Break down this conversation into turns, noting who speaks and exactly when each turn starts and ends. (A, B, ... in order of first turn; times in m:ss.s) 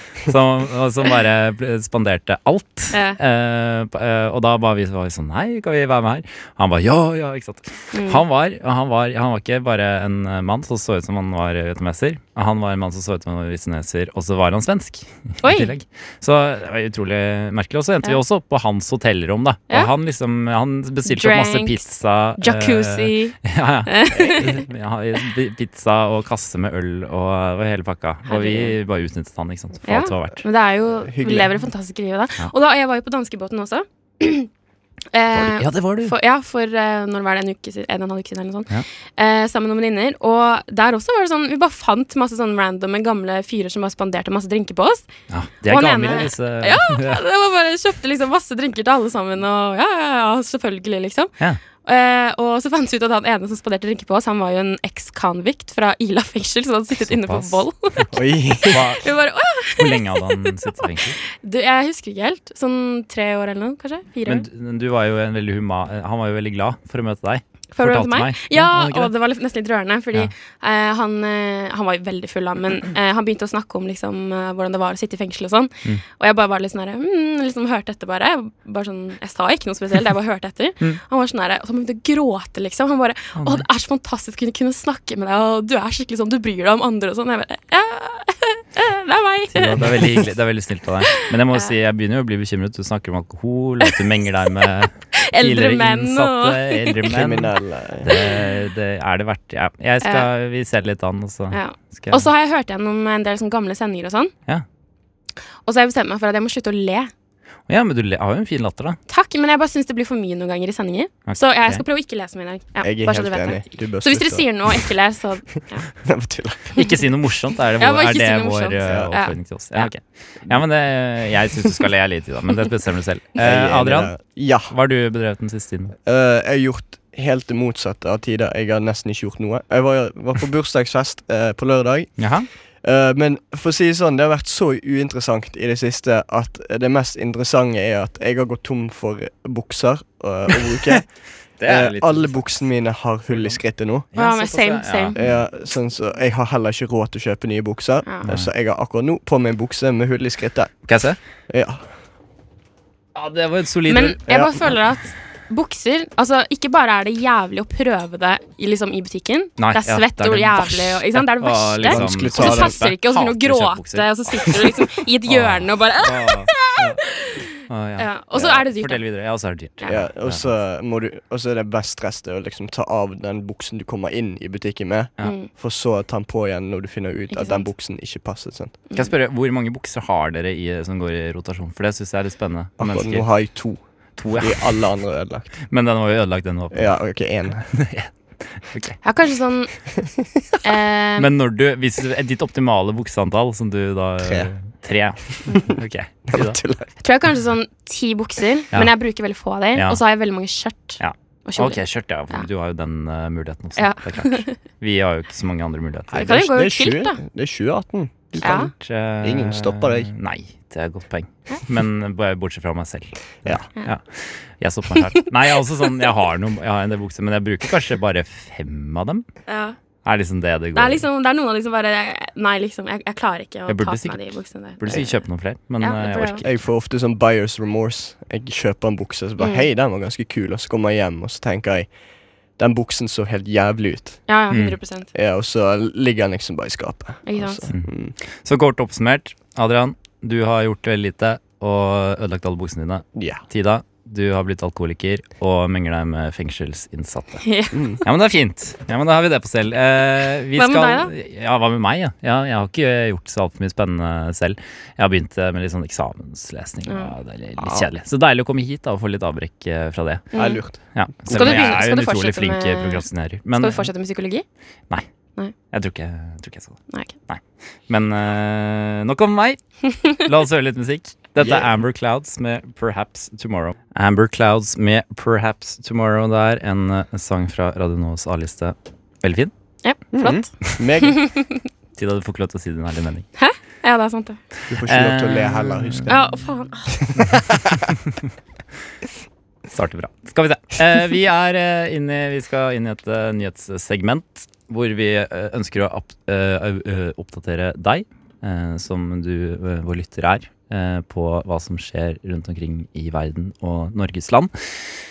0:00.2-0:30.4 A
0:02.9-0:03.2 B
0:07.9-0:08.2 B
0:15.4-0:15.7 B
0:21.1-0:21.8 B
0:22.4-0:24.6 B
0:24.1-0:24.5 C
0:28.3-0:28.8 B
0:29.8-0:34.5 B
0:31.1-0:31.5 C
0:35.1-0:45.1 B
0:35.3-0:36.1 A
0:45.3-0:47.2 A
0:45.7-0:51.3 B
0:51.8-1:04.4 B
0:57.1-0:57.6 A
0:58.1-0:58.9 C
0:58.6-1:01.2 A
1:04.2-1:09.1 A
1:07.7-1:29.9 B
1:23.4-1:23.6 A
1:29.5-1:42.2 A
1:31.1-1:31.7 B
1:35.1-1:37.0 B
1:37.0-1:38.1 C
1:40.0-1:40.3 B
1:41.5-1:44.3 B
1:45.6-1:47.1 B
1:47.7-1:49.0 A
1:49.1-1:55.9 B
1:51.3-1:51.8 A
1:52.8-1:54.8 C
1:55.9-1:56.8 C
1:56.7-2:05.9 A
1:57.8-1:59.3 B
1:58.8-1:59.1 C
2:03.4-2:04.7 C
2:06.0-2:12.3 C
2:12.2-2:12.5 A
2:12.8-2:21.1 C
2:21.6-2:22.6 A
2:21.6-2:24.1 C
2:23.3-2:23.6 A
2:24.1-2:25.4 A
2:24.1-2:25.2 B
2:25.1-2:30.8 C
2:30.8-2:31.2 A
2:31.5-2:31.9 C
2:33.1-2:34.2 A
2:33.9-2:49.0 B
2:34.3-2:34.6 C
2:39.6-2:47.0 A
2:41.8-2:42.8 C
2:47.6-2:50.5 A
2:49.8-2:50.1 B
2:49.8-2:58.7 C
2:55.2-2:55.5 B
2:57.3-2:57.7 B
2:58.9-3:03.4 A
3:02.8-3:03.8 C
3:04.2-3:04.8 A
3:04.3-3:05.5 C
3:05.6-3:07.0 A
3:06.7-3:07.7 C
3:07.7-3:09.0 A
3:09.0-3:09.7 B
3:10.0-3:10.3 C
3:10.6-3:11.3 B
3:11.2-3:16.6 A
3:14.2-3:14.5 C
3:16.3-3:16.9 C
3:17.0-3:22.5 B
3:19.7-3:20.0 A
3:21.0-3:26.3 A
3:23.8-3:24.6 B
3:26.1-3:28.7 C
3:26.1-3:27.2 B
3:28.4-3:28.7 B
3:28.4-3:39.2 A
3:29.2-3:30.1 C
3:35.0-3:35.3 B
3:39.5-3:39.8 B
3:40.0-3:41.0 A
3:40.7-3:45.2 B
3:43.7-3:46.6 A
3:45.8-3:46.4 B
3:46.4-3:51.9 C
3:49.4-3:49.7 B
3:52.6-3:54.2 C
3:54.3-3:55.1 B
3:54.5-3:54.8 A
3:55.1-3:58.1 C
3:57.2-3:57.6 B
3:57.7-4:07.4 A
4:03.1-4:03.4 C
4:07.4-4:08.0 B
4:07.7-4:08.0 C
4:08.0-4:20.3 A
4:10.6-4:11.1 B
4:16.9-4:17.1 B
4:17.6-4:17.9 C
4:20.3-4:20.6 B
4:20.4-4:21.9 C
4:20.9-4:23.9 A
4:21.3-4:23.0 B
4:23.6-4:24.4 B
4:25.7-4:39.5 A
4:29.9-4:30.1 B
4:31.4-4:31.7 C
4:39.8-4:41.6 B
4:40.1-4:41.2 C
4:42.0-4:43.3 A
4:43.4-4:44.4 B
4:44.7-4:46.3 C
4:44.7-4:46.1 A
4:46.1-4:47.0 B
4:46.9-4:47.9 C
4:47.3-4:48.2 A
4:49.7-5:04.8 A